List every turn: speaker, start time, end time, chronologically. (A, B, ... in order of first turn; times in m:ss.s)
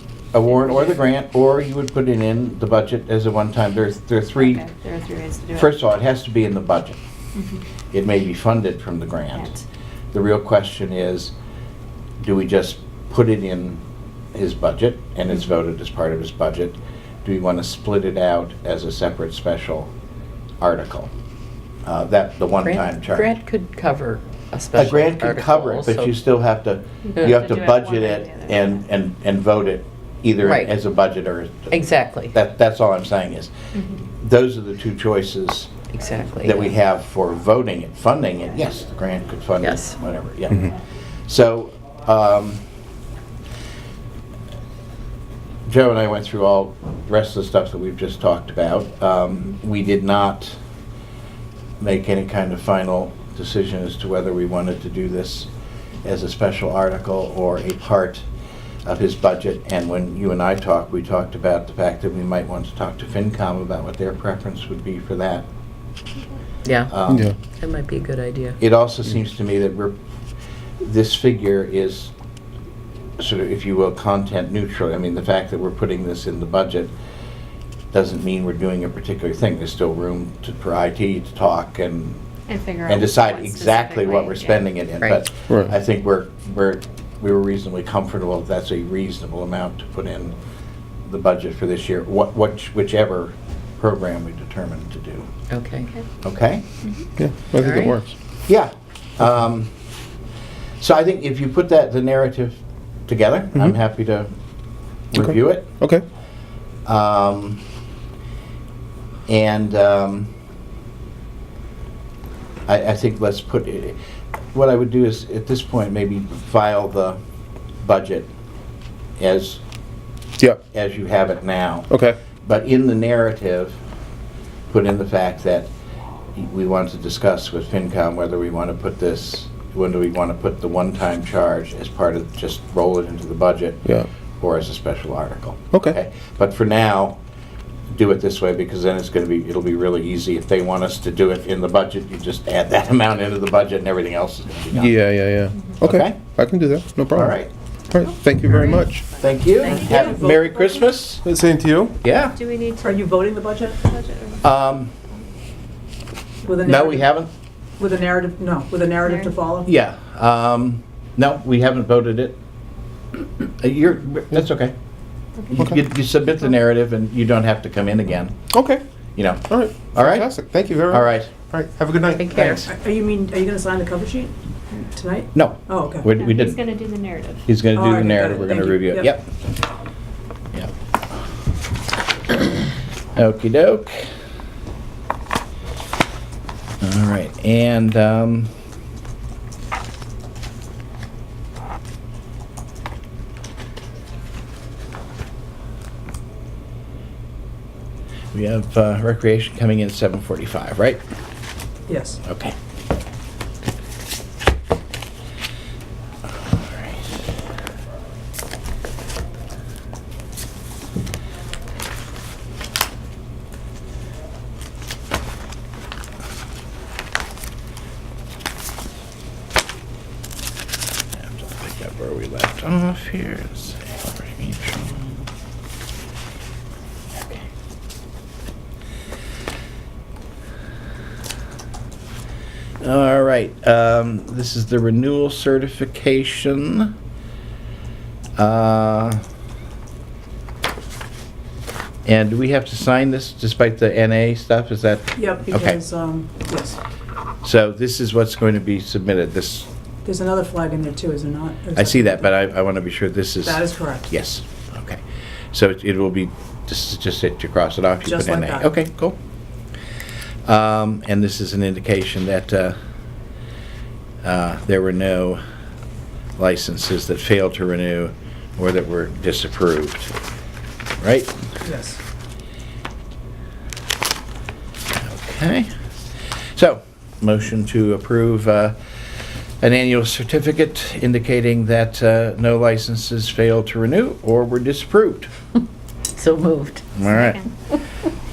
0:00.3-0:04.6 A
0:00.4-0:01.0 B
0:04.4-0:05.8 B
0:05.5-0:07.0 A
0:07.9-0:09.5 A
0:09.3-0:09.6 B
0:10.1-0:11.3 A
0:12.2-0:13.8 A
0:14.4-0:19.9 A
0:20.6-0:21.1 A
0:21.8-0:23.4 A
0:22.6-0:26.2 C
0:24.7-0:31.7 A
0:27.0-0:28.8 B
0:30.4-0:30.7 C
0:31.7-0:32.3 C
0:32.3-0:35.7 A
0:35.9-0:36.8 C
0:36.4-0:40.7 A
0:39.6-0:40.0 C
0:41.3-0:42.6 A
0:45.7-0:50.6 A
0:51.8-0:55.5 A
0:56.0-0:58.2 A
0:58.8-1:05.4 A
1:06.6-1:08.6 C
1:06.9-1:07.3 A
1:07.1-1:07.3 D
1:08.6-1:10.0 A
1:10.8-1:12.1 A
1:13.2-1:16.9 A
1:17.9-1:22.2 A
1:22.5-1:24.7 B
1:22.9-1:30.3 A
1:25.0-1:25.2 C
1:31.1-1:35.3 A
1:35.5-1:35.9 C
1:36.2-1:36.6 A
1:37.2-1:38.1 D
1:37.6-1:38.0 C
1:38.4-1:39.7 A
1:40.8-1:44.3 A
1:45.1-1:45.7 A
1:45.2-1:46.0 D
1:46.9-1:47.6 A
1:49.3-1:50.3 A
1:52.7-1:54.0 A
1:54.5-1:57.2 A
1:57.8-1:58.3 A
1:59.2-1:59.6 A
2:00.7-2:03.8 A
2:01.9-2:02.2 D
2:04.7-2:05.7 A
2:06.4-2:17.2 A
2:17.9-2:25.0 A
2:24.7-2:27.4 D
2:25.8-2:26.4 A
2:27.1-2:27.5 A
2:27.9-2:29.1 D
2:28.6-2:30.3 B
2:29.2-2:31.2 A
2:29.6-2:30.9 E
2:31.2-2:32.0 D
2:32.0-2:32.4 A
2:32.2-2:34.6 B
2:32.8-2:33.8 E
2:34.4-2:34.9 A
2:36.5-2:37.1 E
2:36.6-2:37.3 A
2:37.8-2:39.7 E
2:39.1-2:39.4 B
2:39.7-2:42.4 A
2:43.6-2:44.7 A
2:45.5-2:48.5 A
2:48.5-2:48.8 D
2:49.2-2:51.3 A
2:49.5-2:52.3 D
2:52.2-2:52.7 C
2:52.3-2:52.6 A
2:52.3-2:56.1 E
2:55.3-2:56.6 A
2:56.1-2:57.5 B
2:57.5-2:59.3 A
2:57.7-2:59.2 E
3:03.2-3:04.1 A
3:06.8-3:08.5 A
3:18.3-3:21.0 A
3:21.9-3:22.2 E
3:22.2-3:22.6 A
3:26.3-3:27.1 A
3:41.2-3:45.2 A
3:47.1-3:47.5 A
3:52.8-3:56.9 A
3:58.4-3:59.2 A
4:02.0-4:05.8 A
4:05.2-4:06.8 E
4:07.4-4:09.7 A
4:10.0-4:12.3 E
4:11.8-4:15.0 A
4:13.4-4:14.1 E
4:15.5-4:19.2 A
4:18.0-4:18.7 E
4:20.4-4:22.8 A
4:24.2-4:25.4 A
4:26.4-4:30.1 A
4:31.0-4:31.3 A
4:31.6-4:32.0 E
4:34.9-4:35.7 A
4:36.6-4:38.8 A
4:39.6-4:45.3 A
4:46.1-4:47.1 C
4:46.9-4:47.4 A
4:47.1-4:47.4 B